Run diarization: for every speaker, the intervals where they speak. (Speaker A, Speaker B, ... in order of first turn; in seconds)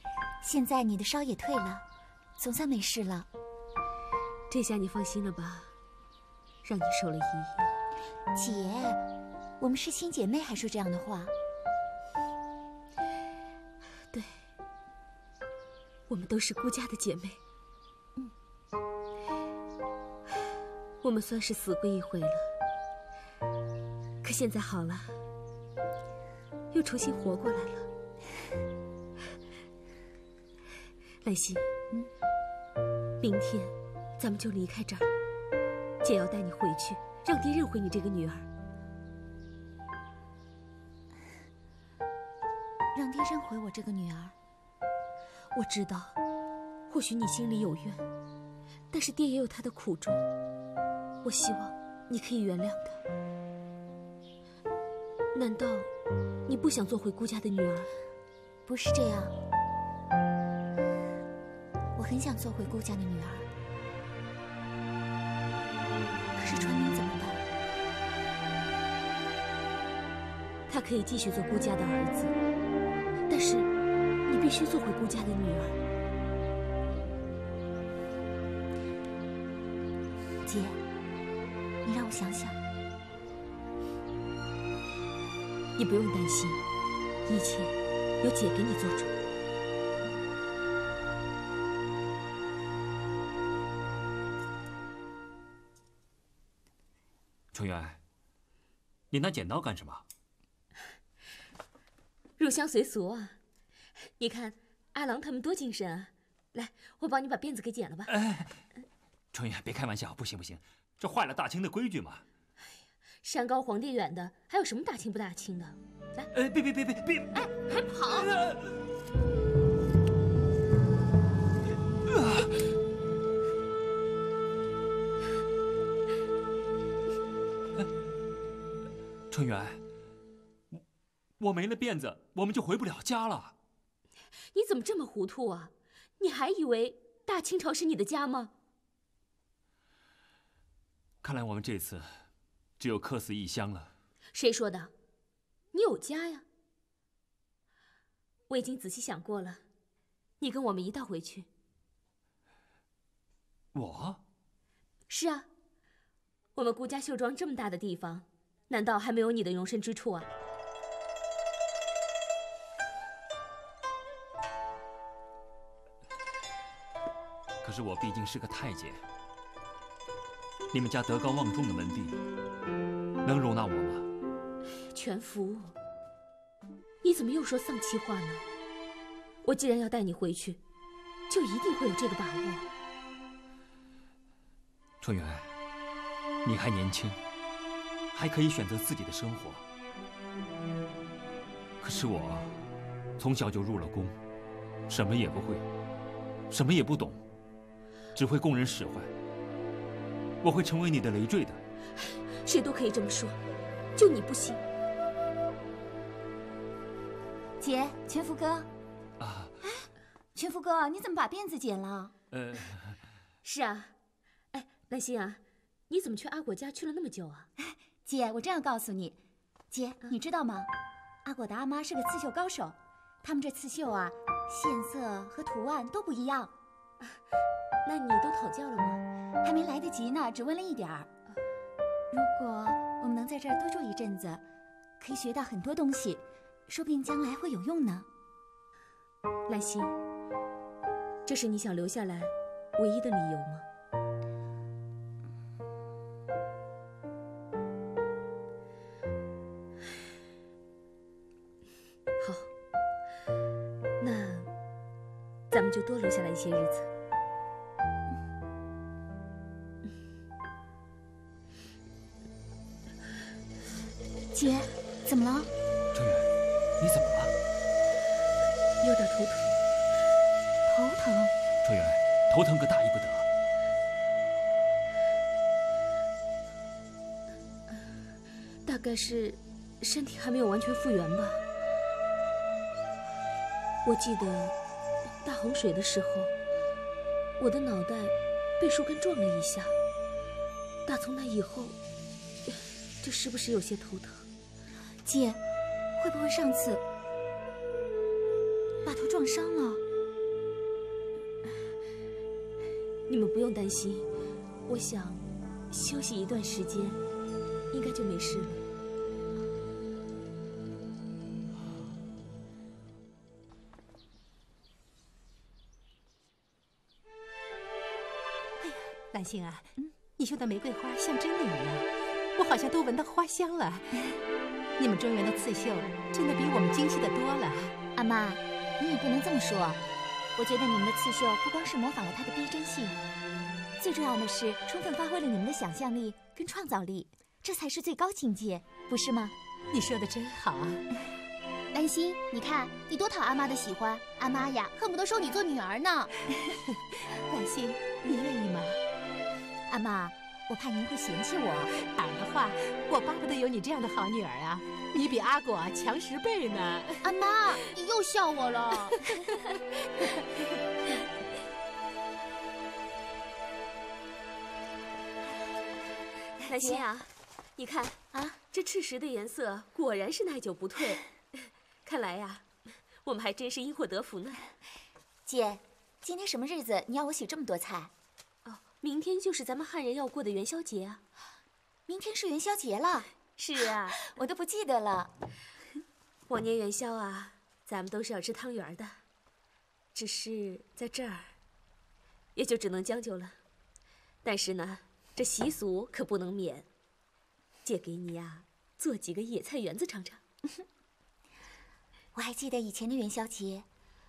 Speaker A: 0.4-1.8, 2.4-3.3, 8.3-9.0, 9.6-11.3, 42.9-44.4, 58.7-59.4, 62.0-63.5, 66.3-67.4, 80.5-80.8, 81.8-82.6, 207.6-208.7, 210.3-212.1, 217.6-219.2, 219.7-220.7, 221.2-226.5, 229.4-231.1, 232.1-234.4, 235.0-238.1, 264.3-265.5, 270.7-271.3, 295.1-295.4, 296.0-296.8, 298.9-299.8, 328.0-329.8, 330.4-333.0, 333.8-339.4, 349.7-351.7, 366.5-366.8, 375.3-377.9, 381.9-383.1, 384.0-385.1, 402.1-403.7
Speaker B: 4.5-5.7, 6.6-7.7, 14.1-14.4, 16.1-17.4, 21.0-22.5, 24.2-25.2, 26.7-27.9, 31.2-31.7, 33.2-35.1, 36.0-38.5, 45.5-46.2, 46.9-48.0, 48.9-50.2, 51.2-53.0, 55.4-55.9, 56.5-57.9, 70.7-72.3, 73.3-73.7, 74.3-75.8, 85.8-86.6, 87.3-89.1, 102.4-103.4, 104.2-108.1, 113.2-116.3, 117.3-118.3, 134.5-138.5, 144.3-144.9, 145.7-146.4, 148.5-149.6, 150.4-151.5, 155.1-155.5, 156.6-160.3, 174.9-175.8, 177.0-178.5, 179.4-180.6, 181.3-182.7, 202.4-203.4, 204.0-204.6, 213.4-213.9, 214.5-217.5, 227.8-229.0, 239.5-240.0, 241.3-243.7, 252.2-252.5, 254.0-254.5, 255.5-256.9, 268.8-269.6, 278.6-281.4, 283.9-284.6, 285.2-286.3, 287.4-289.8, 290.9-291.8, 292.5-294.3, 303.1-304.1, 304.7-307.0, 307.7-308.6, 366.4-372.5, 373.0-374.5, 378.4-381.0, 383.3-384.1, 386.3-389.0, 389.9-391.4, 392.4-393.4, 394.2-396.7, 397.6-400.2
Speaker C: 97.5-98.0, 99.1-100.0, 108.1-108.7, 109.3-112.2, 116.3-118.7, 122.1-122.5, 129.3-129.8, 131.4-133.6, 141.2-142.1, 142.8-143.9, 153.7-154.2, 167.6-169.0, 170.7-172.2, 173.2-174.1, 185.0-185.5, 186.4-187.2, 188.1-189.6, 191.8-192.6, 193.2-194.2, 194.9-195.7, 196.5-197.2, 198.1-199.1, 200.4-201.6, 209.2-209.6, 212.3-213.0, 265.9-266.3, 266.8-267.3, 271.6-273.3
Speaker D: 318.6-324.0, 324.8-327.8, 339.7-340.8, 347.3-348.8, 351.8-357.1
Speaker E: 341.7-346.1, 357.1-358.7